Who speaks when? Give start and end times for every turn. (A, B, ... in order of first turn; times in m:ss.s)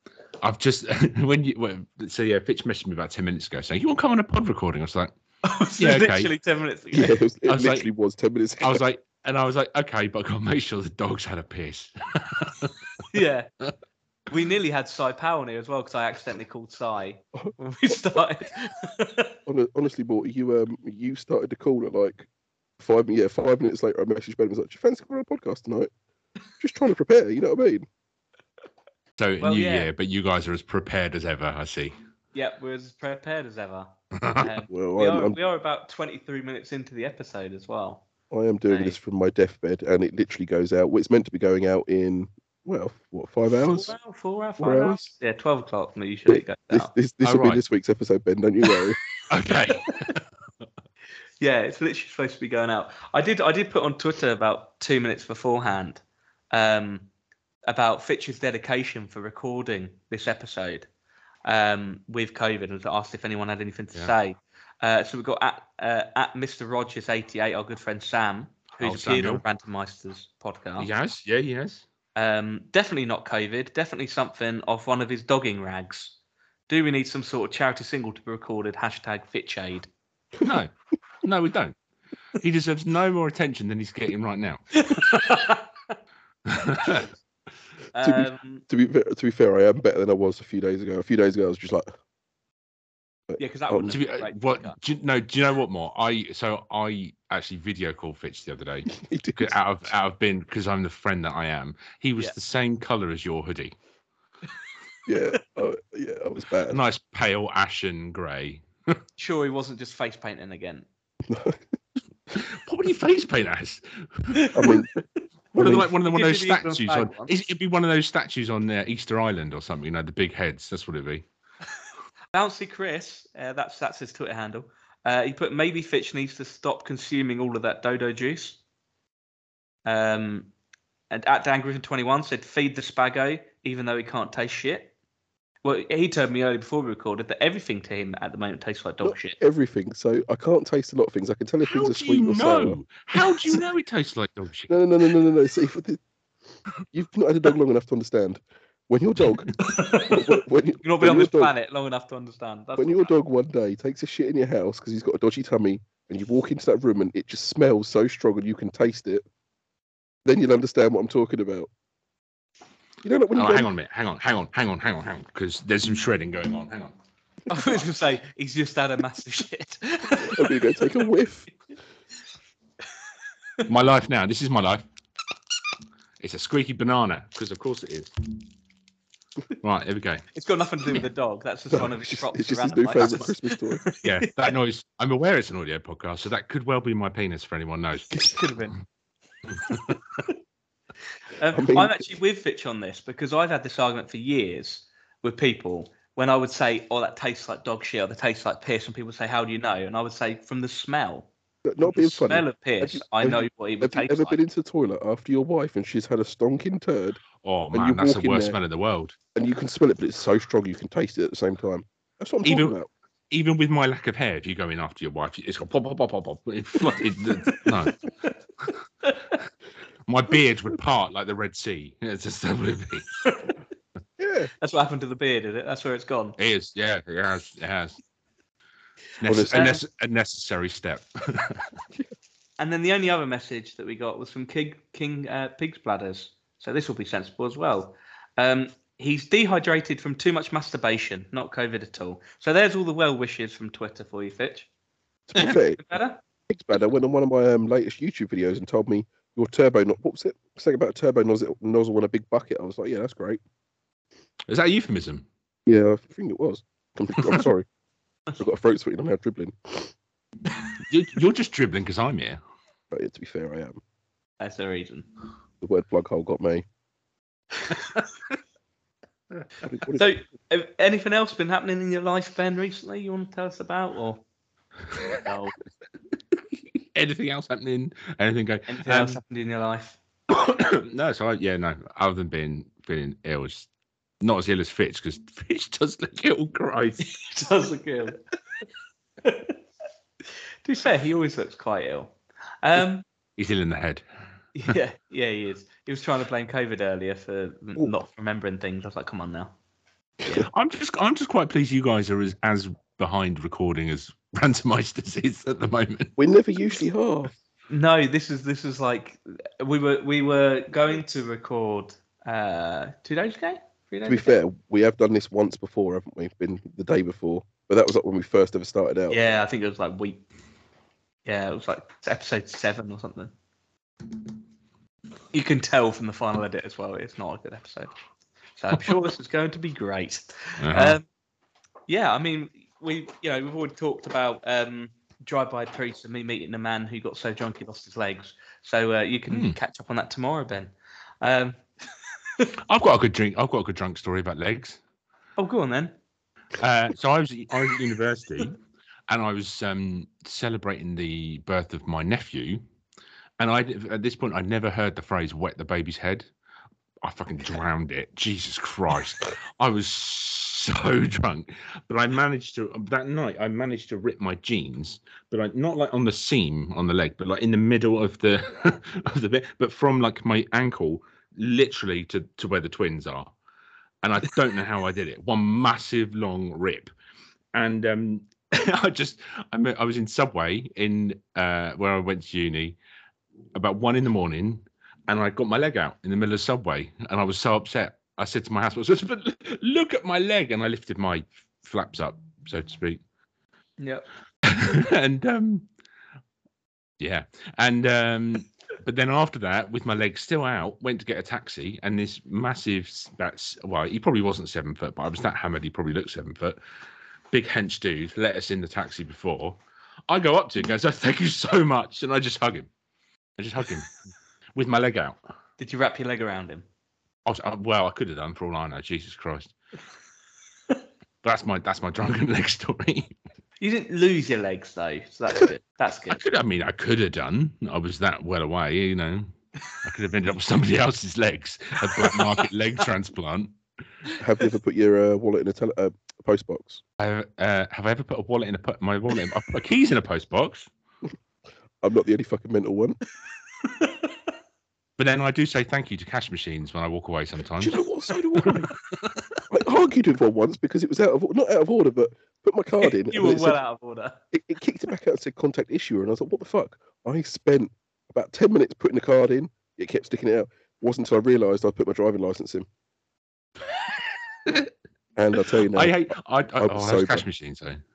0:00.4-0:05.1 A
0:05.4-0:07.2 B
0:05.8-0:06.3 A
0:06.9-0:08.8 C
0:07.5-0:07.9 A
0:08.6-0:12.7 A
0:13.1-0:13.5 B
0:14.3-0:19.4 B
0:17.4-0:17.9 C
0:19.5-0:22.3 C
0:22.8-0:25.9 C
0:26.6-0:27.9 C
0:29.2-0:32.0 A
0:29.4-0:29.9 B
0:32.3-0:38.0 B
0:34.2-0:34.5 A
0:34.7-0:35.4 C
0:38.3-0:44.0 C
0:38.7-0:39.0 B
0:43.6-0:46.9 B
0:44.6-0:45.1 C
0:46.3-0:49.0 C
0:47.2-0:47.6 A
0:49.3-0:50.2 A
0:51.4-0:57.1 B
0:57.7-1:00.9 B
1:01.4-1:10.9 B
1:08.8-1:09.4 A
1:10.8-1:11.8 A
1:12.2-1:16.2 B
1:16.7-1:19.9 B
1:20.4-1:20.7 A
1:21.2-1:21.8 A
1:22.4-1:24.6 A
1:24.7-1:26.0 B
1:26.5-1:27.1 A
1:27.9-1:28.6 B
1:28.0-1:31.9 C
1:33.3-1:33.9 C
1:33.4-1:34.8 B
1:33.9-1:43.8 A
1:38.9-1:39.6 C
1:45.1-1:46.8 C
1:46.7-1:49.0 A
1:49.2-1:50.9 B
1:51.3-1:51.6 C
1:52.4-1:54.5 A
1:54.4-1:54.8 B
1:54.5-1:54.9 C
1:55.6-1:55.9 C
1:55.6-2:01.3 A
1:55.6-1:57.3 B
2:02.3-2:08.6 B
2:09.8-2:10.5 B
2:11.1-2:14.9 B
2:15.6-2:19.4 B
2:19.0-2:22.8 C
2:21.7-2:24.7 A
2:23.3-2:23.6 C
2:24.7-2:26.0 C
2:26.9-2:31.5 C
2:29.6-2:33.1 B
2:32.8-2:39.2 C
2:40.2-2:41.7 C
2:43.0-2:43.7 C
2:43.4-2:46.9 A
2:47.5-2:51.0 B
2:50.2-2:51.5 C
2:53.7-2:54.9 A
2:56.2-2:58.1 A
2:59.6-3:00.2 A
3:00.3-3:04.5 B
3:01.7-3:03.8 C
3:04.0-3:08.2 A
3:08.2-3:08.8 B
3:09.5-3:10.0 A
3:11.4-3:21.3 B
3:11.5-3:12.1 C
3:21.6-3:28.6 C
3:21.8-3:24.4 B
3:27.4-3:29.2 A
3:29.4-3:32.9 C
3:32.4-3:32.8 A
3:33.3-3:38.0 A
3:36.9-3:38.3 B
3:39.0-3:39.3 B
3:40.1-3:43.1 A
3:43.3-3:43.6 B
3:44.2-3:44.5 C
3:44.6-3:46.4 B
3:46.4-3:48.0 A
3:49.2-3:51.7 A
3:49.3-3:49.8 C
3:49.5-3:49.8 B
3:52.6-4:04.7 B
4:05.3-4:05.8 C
4:05.4-4:06.2 B
4:06.5-4:13.4 C
4:14.5-4:15.3 A
4:15.7-4:17.7 C
4:18.4-4:19.9 C
4:20.9-4:22.4 A
4:22.9-4:23.8 C
4:24.4-4:25.1 B
4:25.6-4:26.6 C
4:29.6-4:30.1 C
4:30.0-4:34.2 B
4:35.1-4:35.6 B
4:36.9-4:39.2 A
4:38.7-4:40.0 B
4:40.3-4:43.7 A
4:44.2-4:47.1 A
4:47.0-4:48.2 B
4:49.2-4:49.6 B
4:50.6-4:53.1 B
4:53.4-4:54.1 A
4:54.6-4:59.5 B
5:00.5-5:06.1 A
5:06.2-5:07.3 C
5:07.7-5:14.4 B
5:14.1-5:19.2 C
5:19.1-5:20.2 B
5:21.2-5:23.3 B
5:25.3-5:27.9 B
5:28.6-5:31.0 B
5:30.6-5:31.0 A
5:31.9-5:41.6 B
5:39.3-5:39.6 A
5:42.7-5:44.8 A
5:45.4-5:46.0 B
5:46.6-5:52.6 A
5:53.4-5:56.3 A
5:57.0-6:13.3 A
6:14.0-6:16.9 A
6:17.5-6:22.8 A
6:23.5-6:33.0 A
6:33.8-6:34.1 B
6:34.4-6:35.7 A
6:37.0-6:46.6 A
6:47.3-6:52.7 A
6:53.4-6:54.0 A
6:54.6-6:55.2 A
6:55.6-6:56.6 B
6:57.3-6:59.5 A
7:01.2-7:03.1 A
7:03.6-7:06.2 B
7:06.1-7:09.3 A
7:09.8-7:13.6 A
7:12.0-7:12.4 B
7:14.2-7:16.8 C
7:17.0-7:20.7 A
7:21.8-7:23.0 C
7:23.6-7:24.1 B
7:25.0-7:27.8 A
7:27.6-7:28.7 C
7:29.5-7:33.6 C
7:32.8-7:34.2 B
7:34.3-7:42.7 C
7:44.5-7:44.7 A
7:45.2-7:46.0 C
7:45.7-7:47.8 A
7:46.6-7:47.3 C